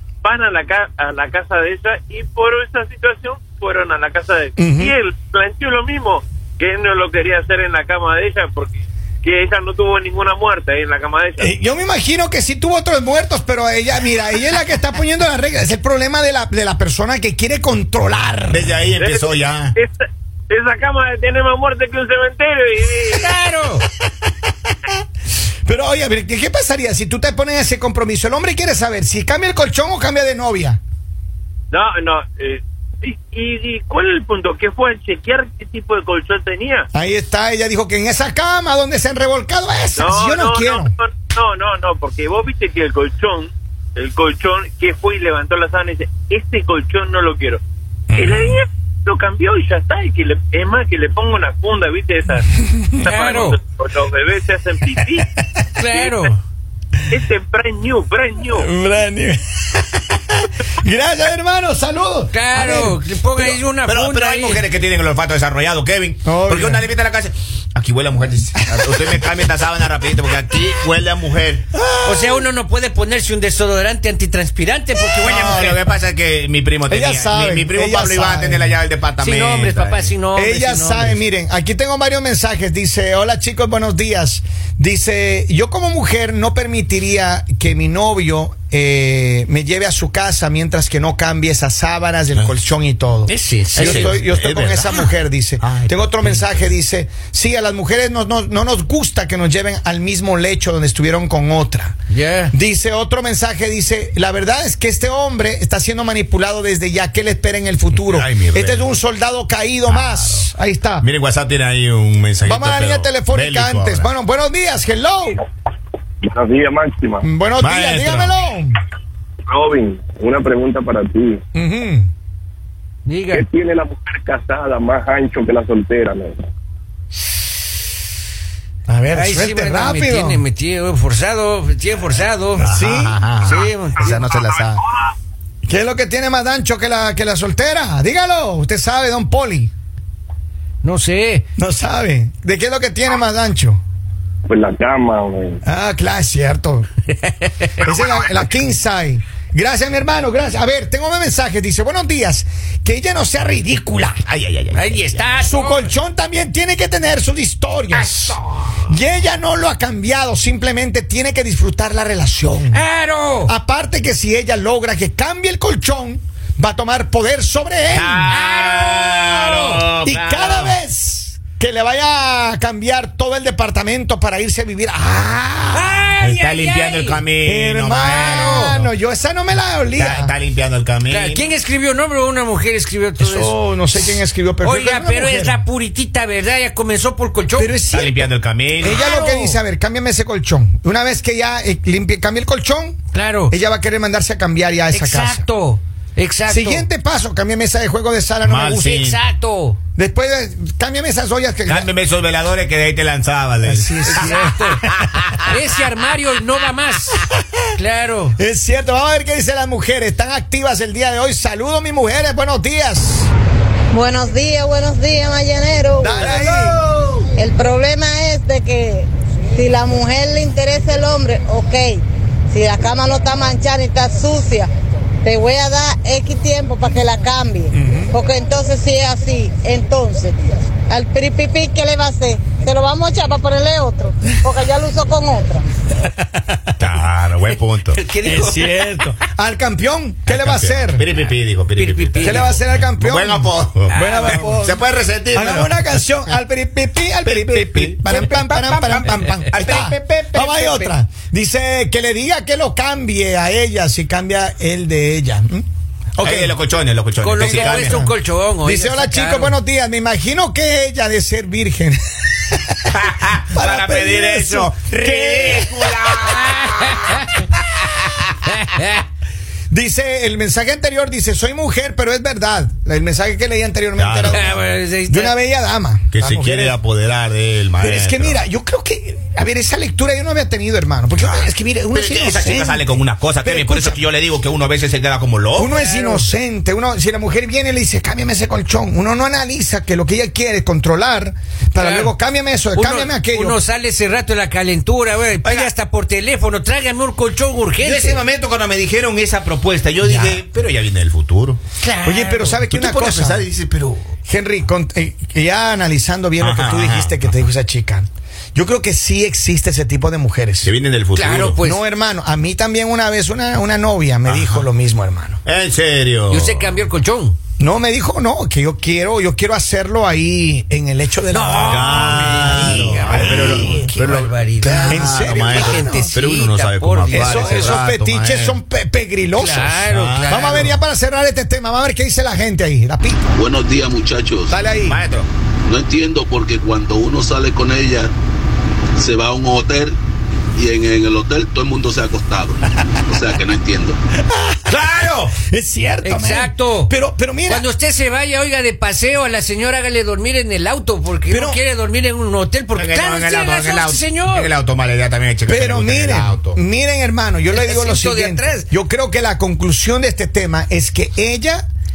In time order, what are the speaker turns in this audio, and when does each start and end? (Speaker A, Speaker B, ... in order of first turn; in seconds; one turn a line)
Speaker A: 0.2-11.5
Speaker B: 4.6-5.0
Speaker B: 11.4-18.8
Speaker C: 18.5-19.8
Speaker A: 19.0-23.3
Speaker D: 23.2-23.9
Speaker B: 25.6-30.8
Speaker A: 31.7-36.9
Speaker B: 36.9-40.9
Speaker A: 40.0-47.6
Speaker B: 48.1-48.6
Speaker A: 48.1-55.3
Speaker D: 53.1-53.6
Speaker D: 55.8-56.4
Speaker A: 55.9-56.3
Speaker A: 57.1-58.7
Speaker B: 58.5-63.6
Speaker D: 62.3-64.7
Speaker C: 63.9-71.7
Speaker B: 66.2-66.9
Speaker B: 68.6-69.2
Speaker B: 71.7-72.5
Speaker D: 72.0-75.8
Speaker C: 75.1-80.1
Speaker B: 75.3-75.8
Speaker B: 76.9-78.8
Speaker D: 79.2-81.2
Speaker B: 80.3-102.0
Speaker D: 93.3-94.2
Speaker C: 93.7-95.0
Speaker C: 95.6-96.6
Speaker D: 102.1-102.5
Speaker B: 102.5-111.1
Speaker C: 108.0-108.9
Speaker C: 109.9-110.5
Speaker C: 111.0-114.1
Speaker B: 112.4-115.4
Speaker E: 116.2-117.3
Speaker B: 117.2-118.8
Speaker C: 117.6-118.4
Speaker E: 119.5-121.4
Speaker B: 121.5-122.1
Speaker D: 123.0-123.5
Speaker E: 123.3-126.4
Speaker B: 128.9-130.4
Speaker D: 129.1-132.7
Speaker B: 132.6-133.2
Speaker C: 132.6-134.8
Speaker D: 133.4-134.2
Speaker B: 135.7-139.7
Speaker D: 140.8-141.4
Speaker B: 141.6-143.8
Speaker E: 144.5-145.6
Speaker B: 145.7-146.9
Speaker B: 147.8-154.2
Speaker C: 154.3-155.2
Speaker D: 154.7-155.9
Speaker B: 155.4-162.8
Speaker D: 157.9-158.8
Speaker D: 162.7-163.5
Speaker B: 163.5-168.3
Speaker C: 167.9-170.8
Speaker D: 168.3-169.9
Speaker B: 170.0-176.1
Speaker D: 175.7-177.2
Speaker C: 176.2-178.9
Speaker B: 177.4-180.3
Speaker D: 178.0-178.8
Speaker C: 180.0-181.5
Speaker D: 181.1-187.8
Speaker B: 183.2-185.6
Speaker B: 187.6-188.3
Speaker C: 187.9-189.1
Speaker B: 188.8-193.0
Speaker D: 188.8-189.6
Speaker D: 193.1-193.6
Speaker B: 193.5-195.5
Speaker D: 194.9-196.9
Speaker B: 196.5-199.2
Speaker C: 198.4-199.2
Speaker D: 198.8-199.8
Speaker B: 200.0-201.9
Speaker C: 201.7-204.5
Speaker B: 203.6-205.4
Speaker D: 204.1-204.8
Speaker C: 205.1-205.5
Speaker D: 205.5-208.4
Speaker B: 208.4-213.3
Speaker F: 213.9-216.3
Speaker B: 216.0-216.8
Speaker C: 216.2-217.3
Speaker F: 217.4-224.7
Speaker F: 225.2-235.7
Speaker B: 227.7-228.2
Speaker B: 236.0-236.6
Speaker C: 236.8-238.0
Speaker D: 237.9-239.1
Speaker B: 238.2-241.1
Speaker C: 240.3-245.7
Speaker D: 241.8-242.6
Speaker B: 242.2-255.7
Speaker D: 243.9-244.5
Speaker C: 247.2-250.9
Speaker B: 256.2-256.6
Speaker C: 256.2-258.0
Speaker D: 257.2-259.6
Speaker B: 257.4-262.7
Speaker C: 262.9-267.3
Speaker B: 263.5-265.8
Speaker D: 266.3-267.4
Speaker D: 268.4-269.0
Speaker B: 269.7-274.5
Speaker C: 274.0-274.5
Speaker D: 274.3-275.4
Speaker B: 275.1-276.8
Speaker C: 276.1-278.4
Speaker B: 277.8-282.9
Speaker C: 281.1-285.7
Speaker B: 283.4-284.0
Speaker B: 285.5-293.6
Speaker D: 285.8-286.2
Speaker D: 291.8-292.1
Speaker D: 292.8-298.2
Speaker C: 295.4-295.7
Speaker C: 297.8-301.6
Speaker B: 300.0-300.4
Speaker D: 301.8-302.6
Speaker B: 302.0-303.5
Speaker C: 302.7-304.1
Speaker B: 304.2-310.7
Speaker C: 306.4-307.4
Speaker C: 310.6-311.6
Speaker D: 311.1-311.8
Speaker B: 311.6-315.4
Speaker C: 314.3-314.6
Speaker C: 315.4-316.7
Speaker D: 316.3-317.4
Speaker B: 317.6-324.3
Speaker D: 321.3-327.8
Speaker C: 321.6-328.6
Speaker B: 324.8-326.1
Speaker B: 327.1-333.3
Speaker D: 329.4-330.7
Speaker C: 329.9-330.7
Speaker G: 333.4-334.6
Speaker B: 334.5-335.0
Speaker C: 334.9-335.3
Speaker G: 335.7-338.1
Speaker G: 339.0-339.9
Speaker G: 340.6-344.0
Speaker B: 344.2-347.7
Speaker C: 344.7-345.4
Speaker D: 346.0-354.5
Speaker B: 351.3-351.6
Speaker C: 352.8-356.6
Speaker B: 355.5-361.6
Speaker D: 357.5-358.7